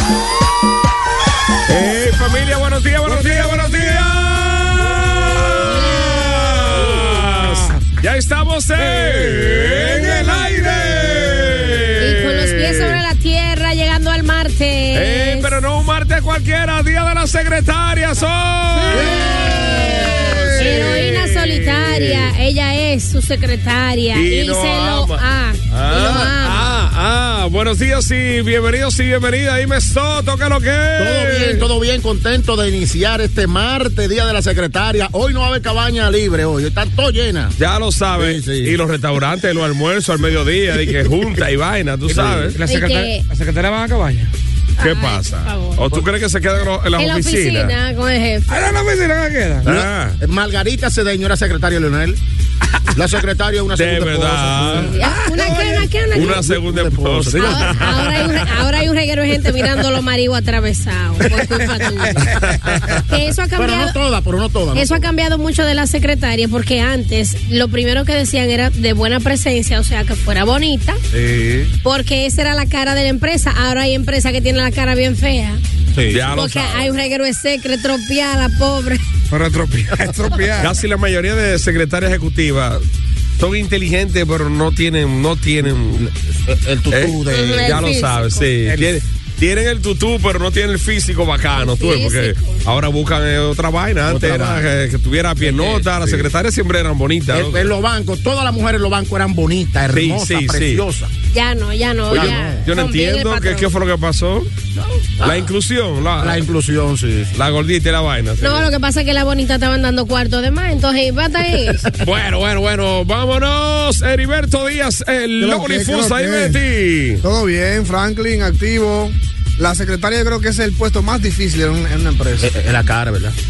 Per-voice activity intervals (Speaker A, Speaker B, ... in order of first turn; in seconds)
Speaker A: 1.7-13.0, 14.9-22.3, 24.1-31.6, 37.6-42.6, 44.8-47.7, 49.6-50.2, 53.7-54.9, 56.1-58.3, 76.1-76.9, 80.6-82.8, 83.4-86.1, 86.9-97.7, 99.9-100.8, 102.1-104.5, 105.2-106.4, 107.3-108.7, 112.0-117.2
Speaker B: 3.0-4.0, 5.9-7.8, 8.8-11.8, 18.9-19.9, 42.5-44.3, 48.5-49.7, 55.0-55.9, 79.3-80.7, 88.6-88.9
Speaker C: 12.0-15.5, 20.5-26.6, 42.6-43.2, 44.8-45.8, 47.0-48.6, 54.8-56.4, 57.4-62.2, 63.1-64.0, 64.7-71.0, 71.8-75.6, 76.3-79.0, 87.3-88.4, 91.5-92.6, 101.3-103.7, 108.4-111.8
Speaker D: 31.0-37.5, 38.1-38.7, 42.1-42.6, 49.6-52.2, 52.9-55.0, 56.1-57.9, 62.2-63.0, 63.5-65.1, 71.1-71.7, 76.0-76.2, 85.6-87.9, 94.0-94.6, 95.4-96.3, 97.3-101.1, 102.1-102.6, 104.8-105.5, 106.2-107.3, 122.4-123.3
Speaker E: 115.4-116.6, 117.2-122.5